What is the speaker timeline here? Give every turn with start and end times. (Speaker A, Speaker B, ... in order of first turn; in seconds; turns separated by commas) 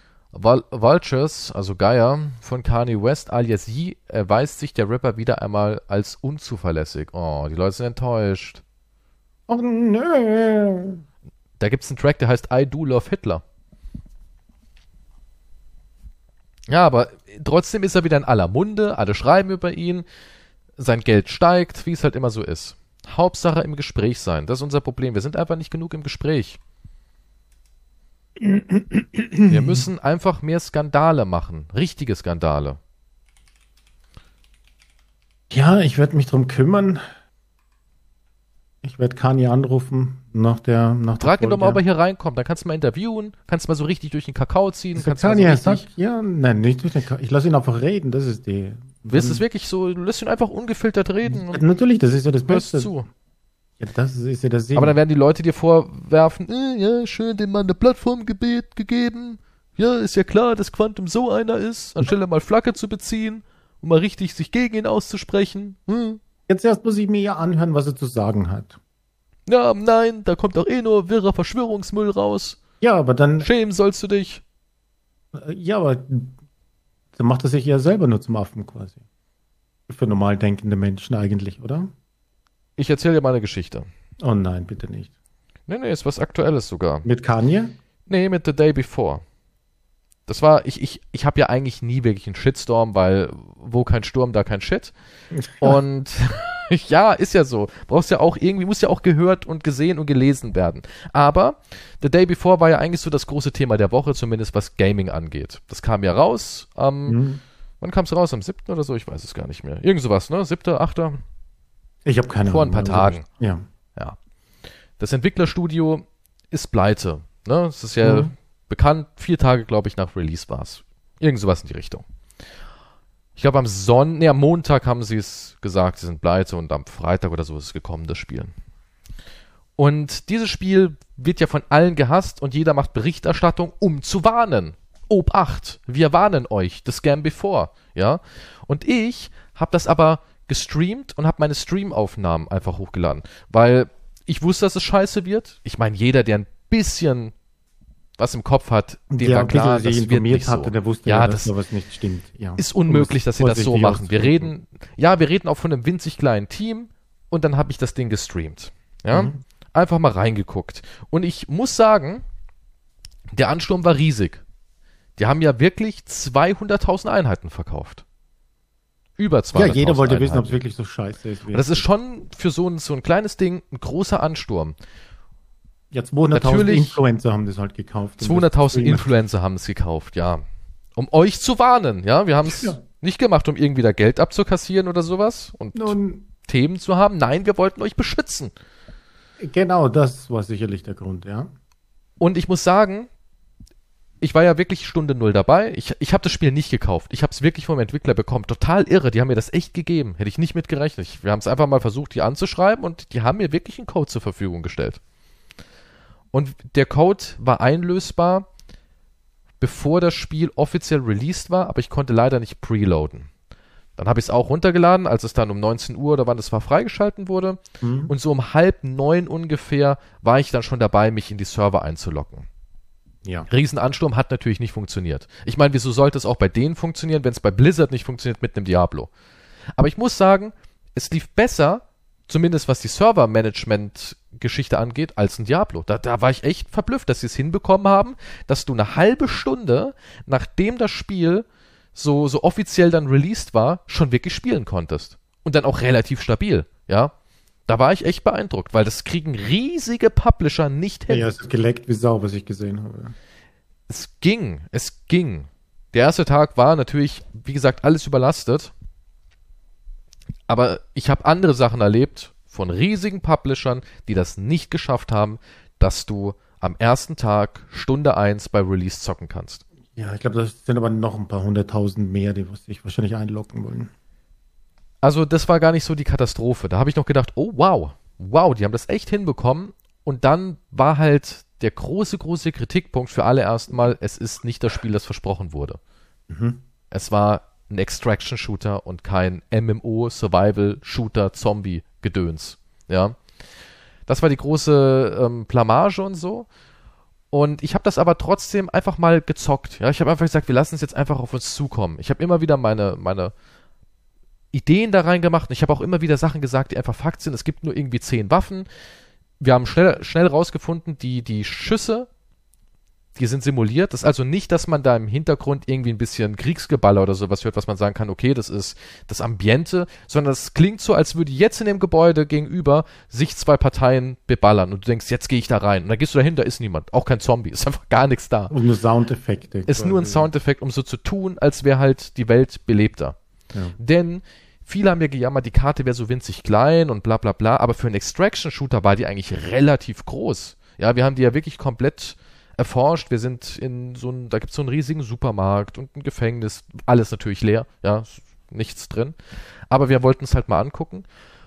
Speaker A: 0.3-8.6, Speaker B: 9.5-11.0, Speaker A: 11.6-13.4, Speaker A: 16.7-20.1, Speaker A: 20.8-26.6, Speaker B: 28.4-29.9, Speaker A: 29.5-32.8, Speaker B: 35.5-37.0, Speaker B: 38.8-41.8, Speaker A: 41.2-45.8, Speaker B: 45.0-49.4, Speaker A: 49.1-51.6, Speaker B: 51.2-52.9, Speaker A: 52.5-53.1, Speaker B: 53.8-55.0, Speaker A: 54.8-66.2, Speaker B: 66.5-68.8, Speaker A: 69.5-72.6, Speaker B: 72.8-73.5, Speaker A: 73.4-74.4, Speaker B: 75.3-76.3, Speaker B: 77.2-79.0, Speaker B: 79.9-81.9, Speaker A: 82.8-83.9, Speaker B: 84.2-85.1, Speaker A: 85.7-87.1, Speaker B: 87.0-87.7, Speaker A: 88.1-89.2, Speaker A: 90.3-94.9, Speaker B: 95.3-95.8, Speaker A: 95.6-107.2, Speaker B: 107.1-107.4, Speaker A: 107.8-111.2, Speaker B: 112.0-113.7, Speaker A: 112.5-113.2, Speaker A: 115.0-122.0, Speaker B: 118.0-118.3, Speaker A: 123.4-128.5, Speaker A: 129.8-147.3, Speaker A: 148.2-151.5, Speaker B: 149.1-154.5, Speaker A: 152.6-162.2, Speaker B: 159.1-159.4, Speaker A: 163.3-164.4, Speaker A: 165.2-168.0, Speaker A: 169.2-170.6, Speaker B: 169.5-171.8, Speaker A: 171.5-174.8, Speaker B: 175.9-179.1, Speaker A: 176.3-177.0, Speaker A: 178.2-180.4, Speaker A: 181.0-188.5, Speaker B: 182.4-182.8, Speaker B: 185.8-186.2, Speaker B: 189.4-191.5, Speaker A: 192.2-193.1, Speaker A: 194.2-205.0, Speaker A: 206.3-208.5, Speaker A: 209.6-213.3, Speaker A: 214.0-222.5, Speaker B: 217.8-218.1, Speaker A: 223.5-229.1, Speaker A: 229.8-247.1, Speaker A: 247.7-251.3, Speaker B: 251.1-253.2, Speaker A: 253.9-258.7, Speaker A: 260.5-269.6, Speaker B: 269.9-273.9, Speaker A: 275.0-285.8, Speaker B: 286.3-286.6, Speaker A: 286.9-293.2, Speaker A: 294.1-296.5, Speaker A: 297.3-303.3, Speaker A: 304.5-308.7, Speaker A: 309.4-312.1, Speaker A: 313.2-328.5, Speaker B: 328.5-330.3, Speaker A: 329.7-333.2, Speaker A: 333.8-349.2, Speaker A: 349.7-351.1